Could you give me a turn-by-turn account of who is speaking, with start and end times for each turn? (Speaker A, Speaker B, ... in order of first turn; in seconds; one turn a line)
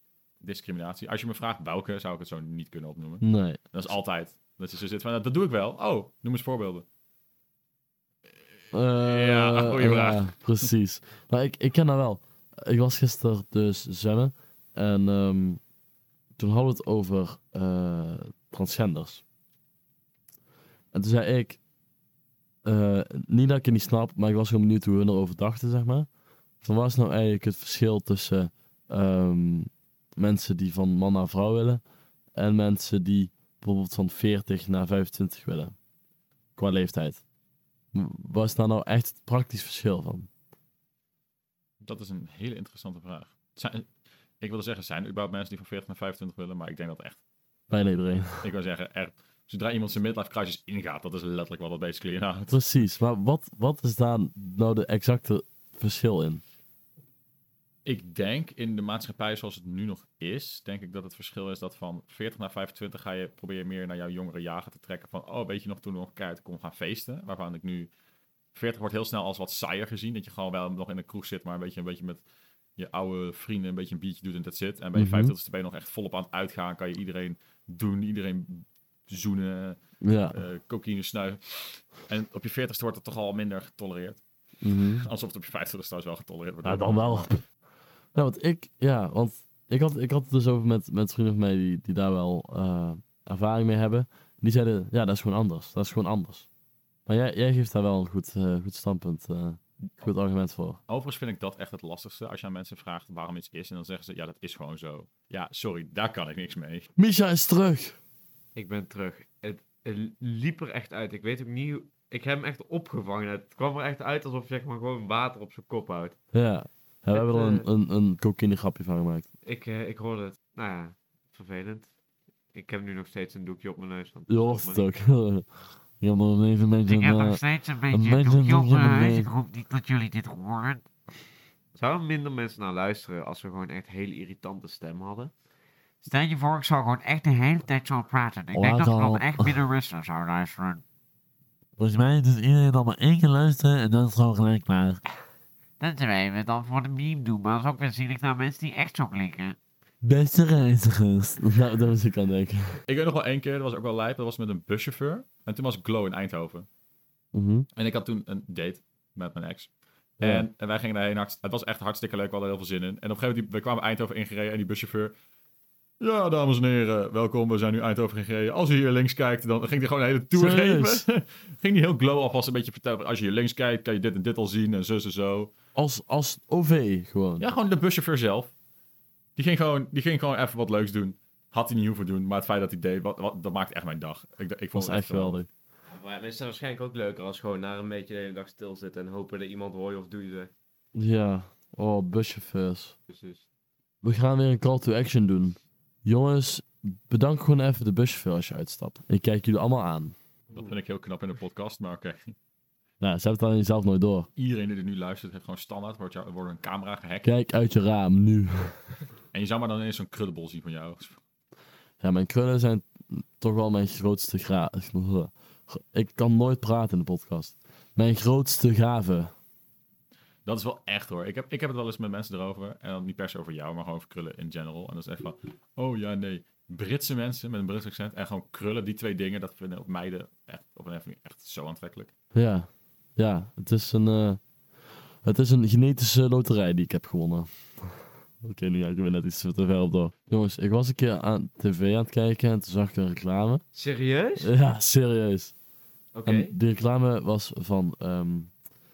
Speaker A: 0.4-6.9
Speaker B: 3.2-3.6
Speaker B: 8.7-15.6
Speaker A: 9.0-10.3
Speaker B: 16.4-19.2
Speaker B: 20.9-21.6
Speaker B: 22.6-26.1
Speaker B: 26.6-31.8
Speaker B: 32.4-35.7
Speaker B: 36.6-37.2
Speaker B: 37.9-40.3
Speaker A: 41.8-43.9
Speaker A: 44.4-47.2
Speaker B: 47.7-48.5
Speaker A: 48.4-52.6
Speaker B: 52.5-56.4
Speaker A: 57.9-67.9
Speaker A: 68.5-72.2
Speaker A: 72.8-79.8
Speaker B: 75.0-75.3
Speaker B: 80.0-80.4
Speaker A: 80.3-84.2
Speaker B: 84.6-85.1
Speaker A: 85.0-87.3
Speaker B: 86.6-87.4
Speaker B: 88.2-96.5
Speaker B: 97.1-100.8
Speaker A: 100.9-106.9
Speaker B: 107.0-108.0
Speaker C: 108.5-116.2
Speaker B: 116.3-119.3
Speaker C: 117.1-117.7
Speaker C: 119.4-121.9
Speaker C: 122.5-124.9
Speaker B: 124.3-129.3
Speaker D: 127.0-129.9
Speaker C: 127.2-130.8
Speaker C: 131.8-135.3
Speaker C: 136.0-140.4
Speaker D: 136.2-137.6
Speaker D: 138.5-140.8
Speaker B: 138.5-139.6
Speaker B: 141.8-145.0
Speaker C: 145.8-149.5
Speaker D: 145.8-146.5
Speaker D: 148.2-149.4
Speaker B: 150.0-152.8
Speaker A: 152.9-156.7
Speaker B: 157.3-157.7
Speaker A: 157.8-165.1
Speaker B: 160.2-160.5
Speaker A: 166.0-175.5
Speaker B: 170.3-171.1
Speaker B: 175.8-177.5
Speaker A: 177.4-178.5
Speaker A: 179.4-185.4
Speaker B: 184.7-185.5
Speaker C: 185.9-190.5
Speaker B: 190.9-192.9
Speaker C: 193.1-193.5
Speaker B: 194.0-200.2
Speaker A: 200.5-202.3
Speaker B: 203.0-204.3
Speaker A: 204.4-207.3
Speaker B: 207.2-208.8
Speaker A: 209.3-211.2
Speaker B: 212.0-219.3
Speaker A: 220.5-232.1
Speaker B: 232.3-234.4
Speaker B: 235.2-243.6
Speaker C: 243.7-244.5
Speaker B: 244.4-245.5
Speaker C: 246.2-246.6
Speaker B: 246.3-248.5